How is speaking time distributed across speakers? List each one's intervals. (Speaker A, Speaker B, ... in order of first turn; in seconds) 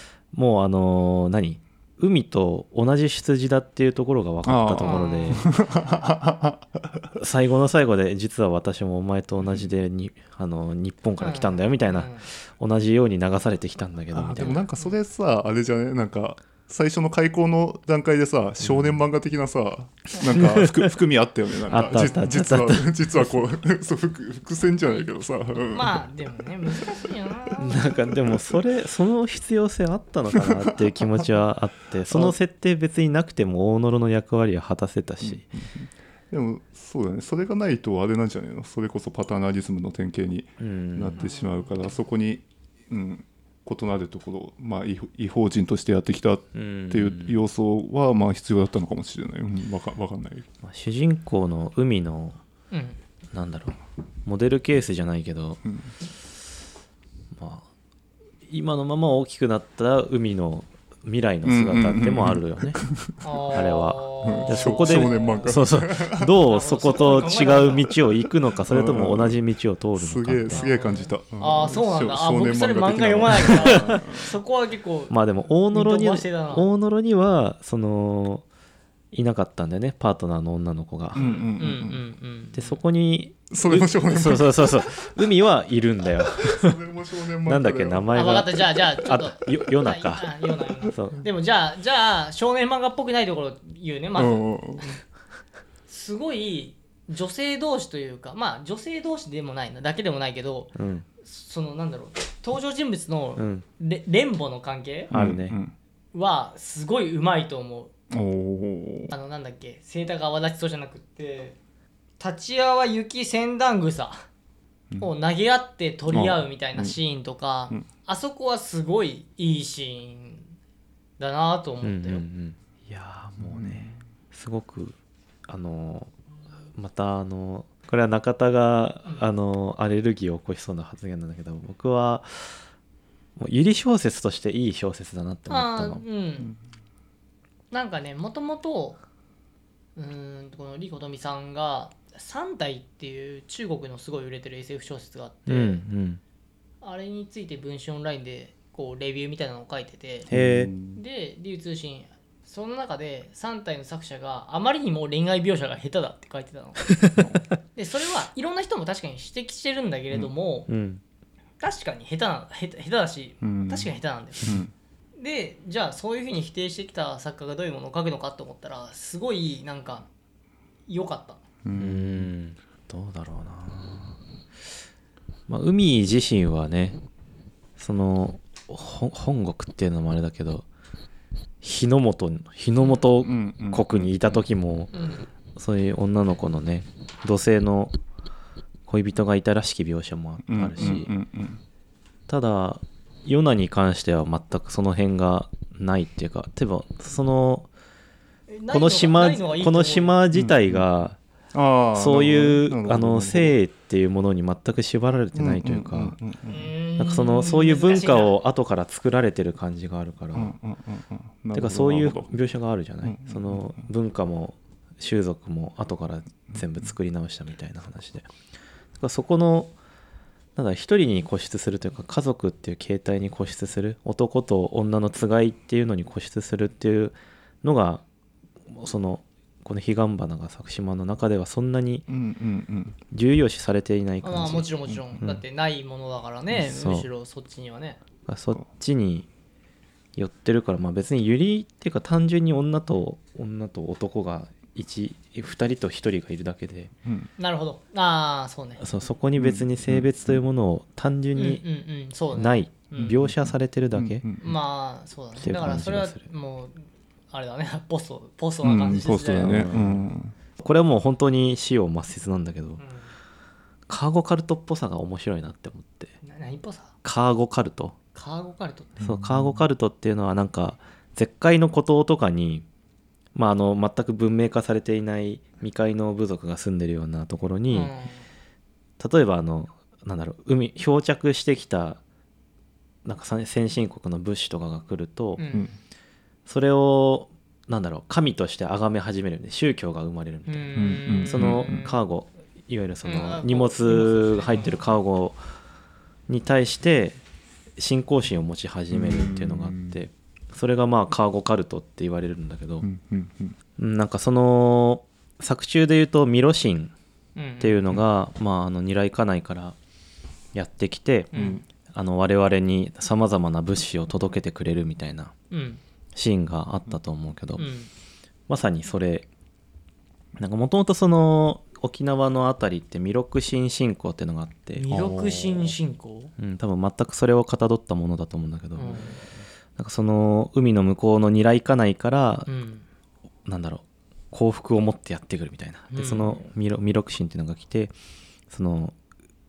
Speaker A: 0.3-5.5, 7.2-14.6, 18.6-19.0, 20.2-20.9, 21.7-23.1, 27.6-35.5, 40.6-41.2, 46.5-47.4, 50.6-52.4, 53.3-55.6, 57.4-57.6, 58.5-62.8, 63.5-70.7, 73.4-74.1, 75.1-78.4, 79.1-81.3, 82.5-86.8, 87.4-91.2, 100.8-101.1, 103.4-103.6, 105.1-105.6, 121.8-124.9, 125.5-126.1, 126.8-132.6, 133.4-136.0, 145.5-146.2, 150.3-150.7, 160.7-161.0, 171.8-174.2, 175.5-177.0, 177.8-180.7, 181.6-184.9, 185.6-187.9, 188.9-191.1, 192.3-197.7, 198.7-201.2, 201.9-206.2, 207.0-210.6, 211.5-218.3, 219.0-219.7, 220.6-228.0, 228.7-232.1, 233.1-235.4, 236.5-237.1, 238.3-239.3, 240.2-246.9, 248.8-251.6, 252.3-254.3, 255.4-256.3, 259.4-262.8, 263.9-266.1, 267.0-268.0, 269.0-272.6, 273.4-277.9, 279.0-282.0, 283.1-285.5, 286.5-295.4, 296.3-297.2, 297.8-302.9, 303.8-306.9, 307.6-309.8, 310.5-315.3, 316.1-317.7, 318.5-319.3, 320.4-325.7, 326.4-329.2, 329.8-332.5, 333.5-337.9, 338.5-338.9
Speaker B: 4.5-7.1, 14.1-26.0, 27.9-28.6, 30.4-30.8, 35.2-50.5, 61.4-63.7, 64.2-66.4, 68.7-69.4, 70.0-74.3, 81.1-82.0, 83.5-85.2, 86.3-88.5, 94.1-95.0, 105.1-105.8, 108.1-109.1, 116.1-116.9, 123.4-124.0, 150.3-151.0, 163.4-163.9, 164.4-164.7, 171.6-172.3, 183.2-184.4, 190.5-191.6, 200.3-200.8, 201.5-203.6, 205.3-206.7, 210.3-212.4, 213.0-213.7, 232.1-233.0, 249.4-250.4, 253.2-254.5, 258.6-260.3, 269.0-269.6, 290.8-291.8, 298.9-300.0, 302.8-303.6, 311.4-311.6
Speaker C: 4.8-5.5, 11.2-12.2, 14.4-14.9, 21.9-22.3, 25.6-28.1, 41.2-41.8, 52.7-53.0, 63.2-65.5, 66.4-67.9, 70.5-75.1, 75.7-76.7, 81.1-82.8, 88.1-95.0, 95.9-105.1, 106.1-107.9, 109.1-111.6, 112.2-114.3, 115.0-120.5, 121.2-122.2, 135.5-136.5, 137.7-139.0, 140.0-145.8, 146.8-150.3, 150.9-157.0, 157.8-160.7, 161.6-164.6, 165.2-170.1, 170.9-171.4, 184.9-185.3, 198.5-200.2, 206.5-208.3, 234.2-238.0, 247.4-248.8, 251.4-253.2, 254.4-259.7, 262.8-263.1, 266.2-266.9, 268.1-269.0, 277.7-278.3, 285.4-285.8, 290.5-292.0, 293.0-294.8, 307.4-307.8, 311.3-311.6, 315.5-315.8, 317.6-317.9, 324.8-326.3, 328.8-329.1, 332.5-332.9, 335.9-336.4